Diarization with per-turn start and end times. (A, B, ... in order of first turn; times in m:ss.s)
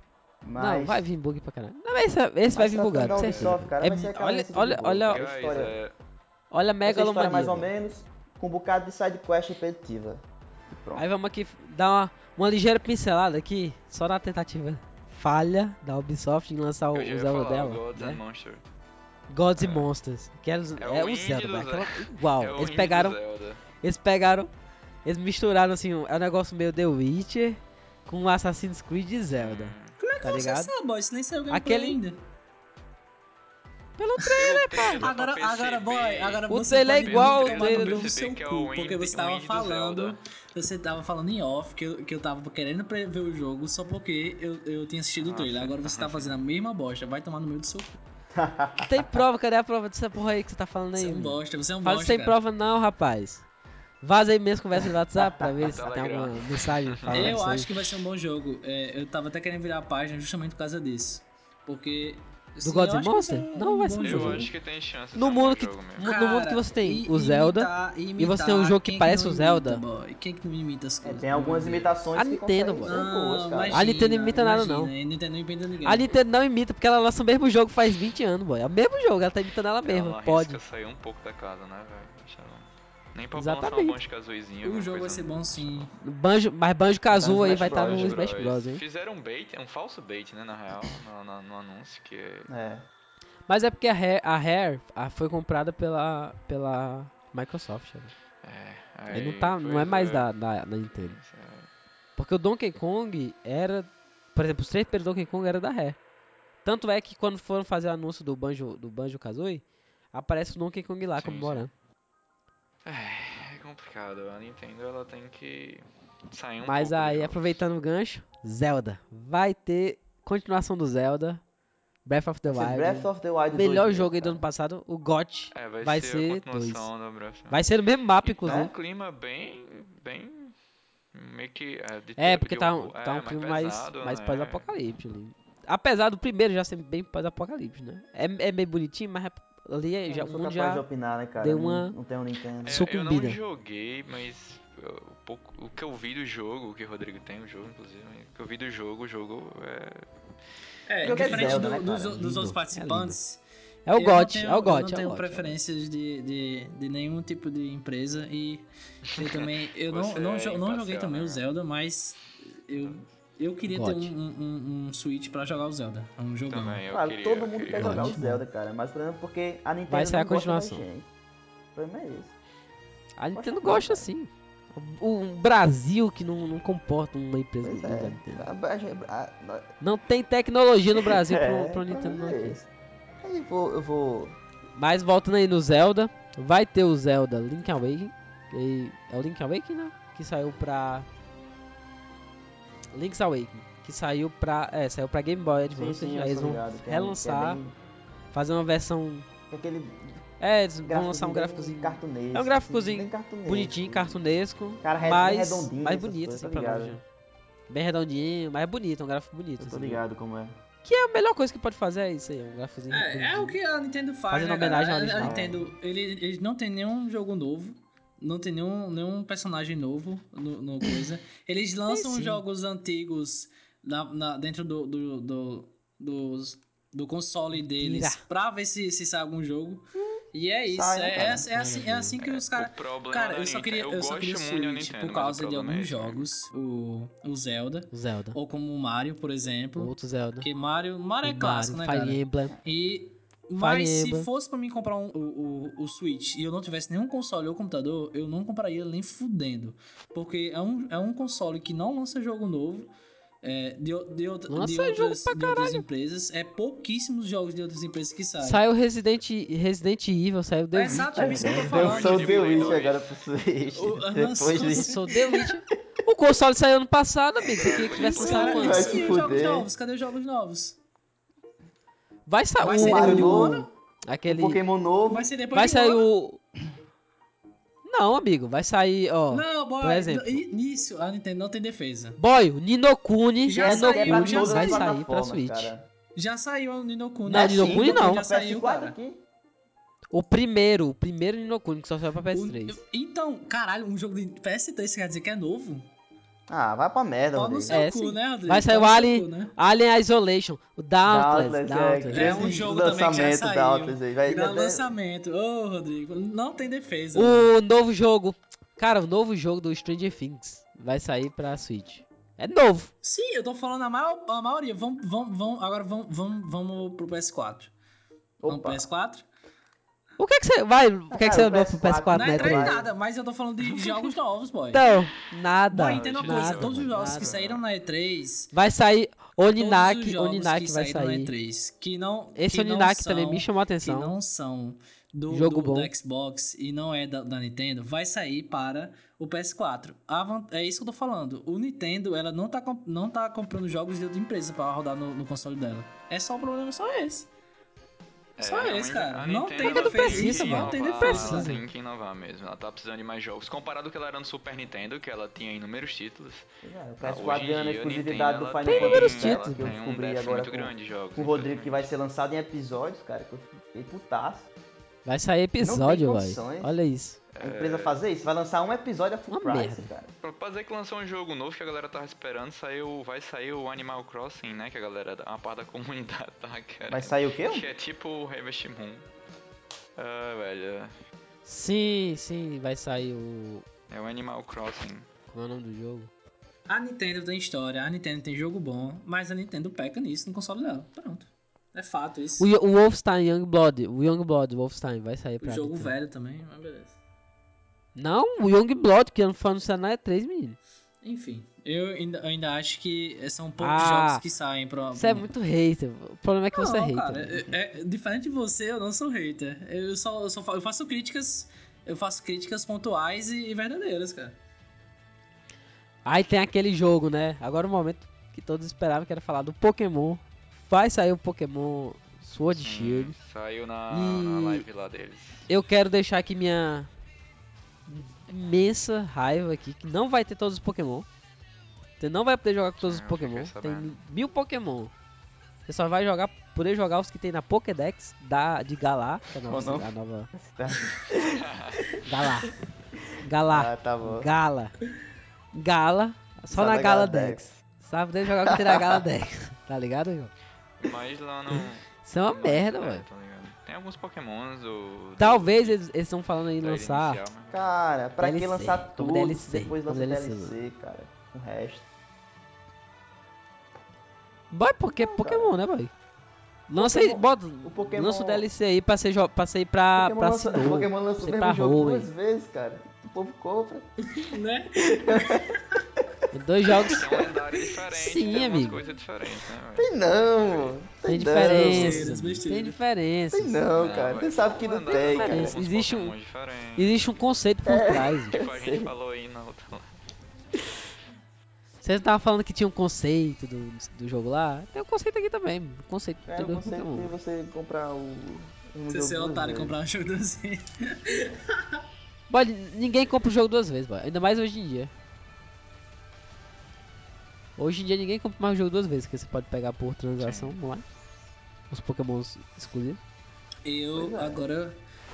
0:00.4-0:01.0 A
0:00.6-0:05.3 B
0:02.5-0:05.8 A
0:02.9-0:03.6 C
0:05.0-0:05.9 C
0:06.5-0:07.7 B
0:06.8-0:11.0 A
0:11.0-0:18.2 B
0:16.9-0:18.6 C
0:19.3-0:23.2 B
0:19.6-0:19.9 C
0:20.8-0:23.6 C
0:23.8-0:24.5 B
0:25.0-0:30.7 B
0:29.3-0:30.0 C
0:30.0-0:32.2 D
0:31.5-0:32.0 B
0:34.0-0:35.0 B
0:34.3-0:40.2 C
0:34.9-0:48.0 D
0:36.5-0:38.1 B
0:45.2-0:46.3 C
0:48.3-0:49.2 A
0:48.8-0:53.4 B
0:51.0-0:52.4 D
0:54.0-0:57.7 B
0:55.2-0:55.7 A
0:55.6-0:57.4 C
0:57.1-1:04.5 D
1:02.6-1:04.5 B
1:04.0-1:06.1 C
1:05.1-1:09.8 B
1:06.0-1:12.0 D
1:11.0-1:14.0 A
1:12.1-1:13.0 B
1:12.8-1:16.0 D
1:13.7-1:14.9 B
1:15.8-1:20.6 B
1:19.8-1:25.9 C
1:23.3-1:24.0 B
1:24.6-1:25.9 D
1:26.0-1:28.8 B
1:27.1-1:28.2 A
1:27.3-1:32.5 C
1:32.5-1:32.9 A
1:33.5-1:38.1 B
1:38.4-1:40.3 C
1:39.1-1:41.2 B
1:40.9-1:41.7 C
1:42.2-1:46.0 B
1:46.6-1:51.7 B
1:51.2-1:51.7 C
1:52.8-1:57.6 C
1:56.6-2:01.4 B
2:02.0-2:06.9 B
2:02.5-2:04.4 A
2:05.5-2:07.6 C
2:07.5-2:08.7 B
2:08.2-2:10.6 C
2:08.4-2:08.7 A
2:11.1-2:14.7 C
2:12.2-2:20.8 B
2:20.0-2:22.8 A
2:21.4-2:22.0 B
2:22.6-2:30.1 C
2:22.7-2:23.4 B
2:30.9-2:33.4 D
2:31.0-2:32.4 A
2:31.2-2:31.6 B
2:32.2-2:33.2 B
2:33.9-2:35.6 B
2:34.0-2:46.8 D
2:39.1-2:41.4 C
2:42.7-2:43.1 C
2:43.7-2:44.1 B
2:46.5-2:48.1 C
2:46.9-2:51.1 A
2:47.7-2:48.4 B
2:49.9-2:50.8 B
2:51.7-2:52.3 A
2:53.2-2:58.5 B
2:53.3-2:54.0 A
2:57.6-2:59.7 A
2:59.8-3:02.6 B
3:00.9-3:02.6 A
3:03.2-3:04.4 A
3:04.8-3:11.1 B
3:12.9-3:17.6 B
3:15.7-3:17.7 A
3:18.3-3:19.3 B
3:19.5-3:20.2 A
3:20.4-3:27.0 B
3:20.8-3:24.1 A
3:24.8-3:27.0 A
3:27.7-3:30.0 B
3:29.6-3:30.6 A
3:30.8-3:33.6 B
3:32.9-4:18.6 D
3:34.3-3:35.5 B
3:35.2-3:35.7 A
3:41.9-3:42.4 B
3:47.6-3:48.2 B
3:50.7-3:51.4 A
3:51.2-3:52.2 B
3:52.2-3:56.3 C
3:57.9-3:58.4 B
3:59.8-4:00.5 B
4:01.2-4:02.6 B
4:03.6-4:04.3 B
4:14.5-4:15.8 B
4:18.4-4:21.9 B
4:20.7-4:22.8 D
4:21.2-4:25.4 A
4:21.6-4:23.1 C
4:23.7-4:25.3 D
4:24.7-4:29.1 B
4:27.4-4:29.3 C
4:27.7-4:30.8 D
4:28.3-4:29.7 A
4:32.3-4:34.6 B
4:32.6-4:33.7 D
4:32.7-4:33.6 A
4:34.3-4:35.3 A
4:35.1-4:36.0 D
4:35.5-4:36.4 B
4:37.8-4:40.4 B
4:39.3-4:42.2 D
4:42.2-4:45.7 B
4:43.4-4:44.9 D
4:43.6-4:45.9 A
4:46.1-4:49.0 D
4:47.2-4:48.2 B
4:47.3-4:49.2 A
4:50.1-4:52.8 B
4:52.3-4:55.9 D
4:56.5-4:57.8 A
4:57.3-4:59.5 D
4:57.7-5:02.6 B
5:01.0-5:04.8 A
5:02.1-5:07.5 D
5:07.1-5:12.9 B
5:13.0-5:17.7 D
5:18.4-5:18.9 A
5:18.5-5:19.3 D
5:20.2-5:22.8 B
5:21.1-5:22.9 A
5:22.1-5:24.9 D
5:23.7-5:24.1 B
5:24.7-5:27.3 B
5:25.7-5:28.5 D
5:25.9-5:27.6 C
5:28.5-5:31.3 B
5:29.5-5:47.3 D
5:32.3-5:34.1 B
5:35.3-5:35.9 B
5:48.4-5:56.5 C
5:48.4-5:51.5 D
5:49.6-5:51.7 B
5:56.6-6:04.5 A
5:57.0-6:01.9 C
5:58.6-5:59.7 B
6:05.0-6:07.2 B
6:05.6-6:06.7 A
6:07.3-6:08.0 C
6:07.4-6:10.1 A
6:09.3-6:09.9 B
6:10.2-6:19.0 C
6:16.9-6:17.7 A
6:20.0-6:20.9 C
6:21.4-6:23.6 B
6:23.9-6:25.1 C
6:25.3-6:26.1 B
6:26.7-6:32.5 D
6:32.4-6:35.9 B
6:35.4-6:37.0 D
6:38.0-6:40.6 B
6:41.0-6:45.3 D
6:43.6-6:44.2 B
6:45.0-6:47.5 B
6:46.5-6:54.4 D
6:56.0-7:03.1 B
7:02.6-7:05.5 C
7:03.9-7:04.7 B
7:05.5-7:06.9 B
7:07.9-7:11.0 B
7:12.0-7:14.9 B
7:12.8-7:14.0 C
7:15.7-7:20.3 B
7:19.5-7:22.0 A
7:21.5-7:21.8 C
7:22.0-7:22.5 B
7:23.2-7:24.7 B
7:23.5-7:24.3 A
7:25.5-7:30.3 B
7:26.5-7:27.6 A
7:28.4-7:29.0 A
7:30.8-7:35.8 C
7:31.5-7:33.0 B
7:35.2-7:37.3 B
7:36.6-7:37.6 C
7:37.5-7:41.9 A
7:38.2-7:40.6 B
7:44.5-7:45.9 B
7:45.0-7:45.5 A
7:46.7-7:52.1 B
7:46.7-7:48.4 A
7:50.0-7:53.9 A
7:54.1-7:55.6 D
7:54.8-7:55.4 A
7:56.3-7:57.1 B
7:56.7-7:57.3 A
7:56.8-8:00.8 C
7:57.9-7:58.8 B
7:59.8-8:02.1 A
8:01.0-8:03.6 B
8:01.3-8:02.8 D
8:03.3-8:05.6 A
8:03.7-8:06.9 C
8:04.9-8:06.1 B
8:06.8-8:08.4 B
8:07.6-8:08.9 A
8:08.3-8:10.0 C
8:11.8-8:17.1 B
8:16.3-8:19.7 A
8:18.9-8:21.8 D
8:22.3-8:24.9 B
8:27.6-8:30.8 B
8:30.2-8:30.6 C
8:31.7-8:33.0 B
8:33.6-8:34.8 D
8:34.0-8:34.4 A